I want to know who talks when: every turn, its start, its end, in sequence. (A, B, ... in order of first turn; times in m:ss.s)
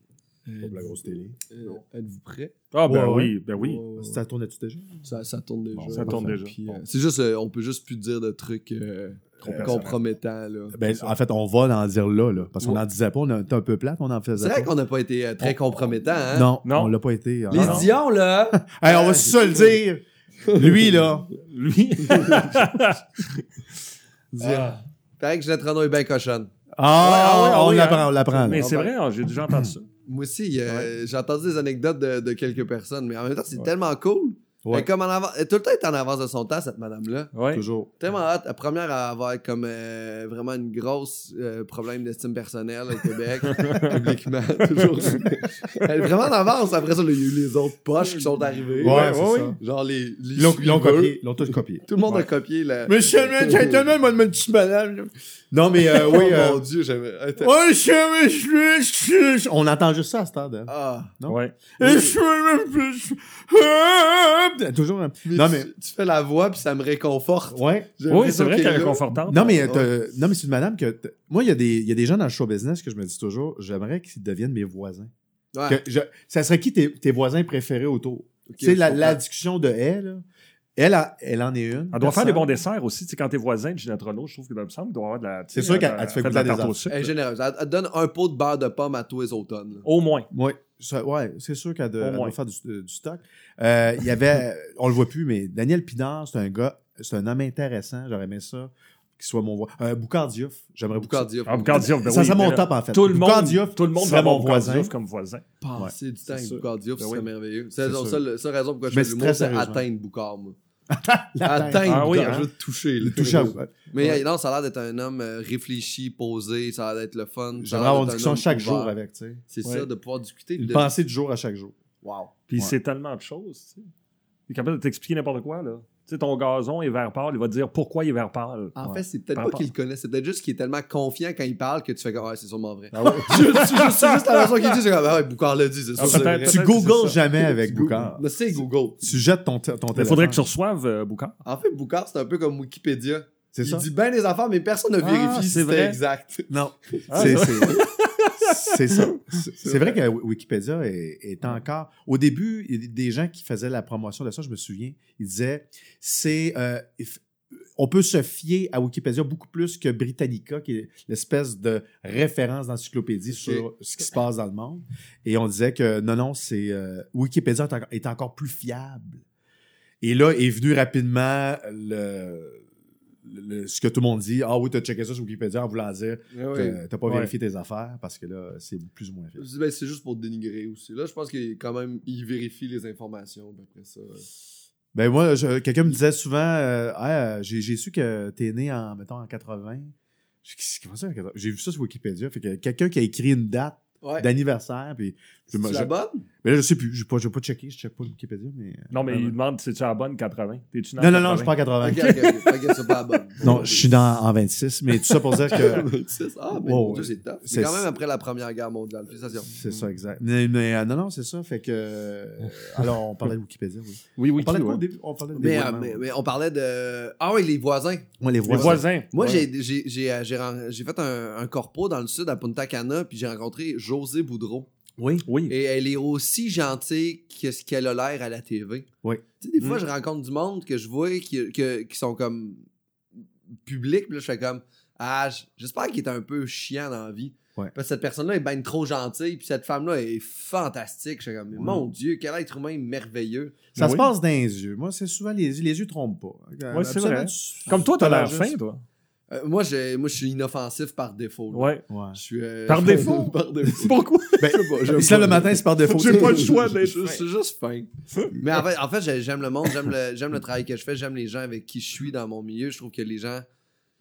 0:00.4-0:02.5 A
0:00.6-0:01.4 B
0:02.7-0:03.8 C
0:02.8-0:03.4 B
0:03.5-0:04.2 A
0:04.0-0:05.0 B
0:05.0-0:11.1 A
0:05.7-0:06.4 B
0:05.9-0:06.8 C
0:09.4-0:09.9 C
0:09.4-0:09.9 B
0:10.7-0:14.7 B
0:14.4-0:16.5 A
0:16.3-0:18.0 B
0:16.6-0:16.9 C
0:17.5-0:19.8 A
0:17.5-0:17.9 C
0:18.6-0:20.0 B
0:20.4-0:21.0 A
0:20.5-0:21.3 B
0:21.3-0:23.4 C
0:22.0-0:22.6 A
0:24.3-0:26.5 A
0:24.4-0:24.8 C
0:26.8-0:28.6 B
0:27.0-0:29.8 C
0:28.4-0:28.9 A
0:30.0-0:37.3 A
0:37.3-0:37.6 C
0:37.5-0:37.9 B
0:38.0-0:53.8 A
0:43.5-0:44.0 C
0:48.0-0:49.6 C
0:48.8-0:49.6 B
0:50.4-0:51.8 B
0:52.8-0:56.6 B
0:55.8-0:57.5 A
0:57.4-1:05.7 B
1:00.7-1:01.1 A
1:01.3-1:01.6 C
1:01.8-1:02.1 A
1:05.2-1:09.0 A
1:07.5-1:07.9 B
1:08.1-1:09.7 C
1:09.2-1:15.1 B
1:09.6-1:09.9 A
1:15.5-1:15.8 A
1:15.7-1:20.2 B
1:18.5-1:19.2 A
1:20.8-1:22.6 B
1:21.9-1:27.1 C
1:25.5-1:26.8 B
1:26.9-1:29.8 A
1:29.8-1:30.3 C
1:30.3-1:44.9 B
1:32.0-1:32.4 C
1:41.0-1:41.9 A
1:41.5-1:45.4 C
1:45.6-1:50.6 A
1:46.3-1:47.2 C
1:47.8-1:48.2 B
1:48.9-1:49.8 B
1:50.9-1:52.4 B
1:51.4-1:58.9 A
1:51.8-1:52.5 C
1:53.0-1:53.9 B
1:53.9-1:54.2 C
1:57.6-1:59.4 B
1:59.5-2:00.9 A
2:00.6-2:01.8 B
2:02.0-2:02.3 A
2:02.5-2:03.9 C
2:04.5-2:08.8 C
2:08.8-2:16.6 A
2:09.3-2:09.7 C
2:12.9-2:14.7 C
2:16.0-2:17.2 C
2:16.0-2:18.3 B
2:17.4-2:19.0 A
2:19.0-2:20.5 B
2:19.9-2:21.4 C
2:21.4-2:27.9 A
2:23.5-2:23.9 B
2:25.0-2:26.0 C
2:26.5-2:27.8 B
2:27.1-2:29.2 C
2:28.4-2:37.2 B
2:29.4-2:30.0 A
2:37.8-2:49.2 B
2:43.3-2:43.6 A
2:50.0-2:52.6 B
2:53.2-2:59.4 B
2:56.3-2:56.8 A
2:59.4-3:04.3 A
3:04.9-3:15.9 B
3:14.0-3:14.3 A
3:15.5-3:16.2 A
3:16.4-3:19.4 B
3:18.9-3:23.6 C
3:21.0-3:22.2 B
3:21.8-3:23.9 A
3:23.4-3:25.9 B
3:25.1-3:25.6 C
3:25.4-3:29.6 A
3:26.5-3:27.9 B
3:29.5-3:36.0 B
3:32.4-3:32.9 C
3:34.2-3:34.8 C
3:35.3-3:44.7 A
3:38.2-3:38.8 B
3:38.5-3:39.4 C
3:45.0-3:45.3 B
3:45.2-3:45.5 C
3:45.5-3:48.9 A
3:49.0-3:49.8 B
3:49.4-3:52.6 A
3:53.6-4:03.6 A
4:03.7-4:08.5 B
4:03.8-4:04.1 C
4:06.7-4:08.8 C
4:09.3-4:23.4 A
4:11.5-4:11.8 C
4:11.9-4:12.2 B
4:12.7-4:17.2 C
4:14.4-4:16.9 B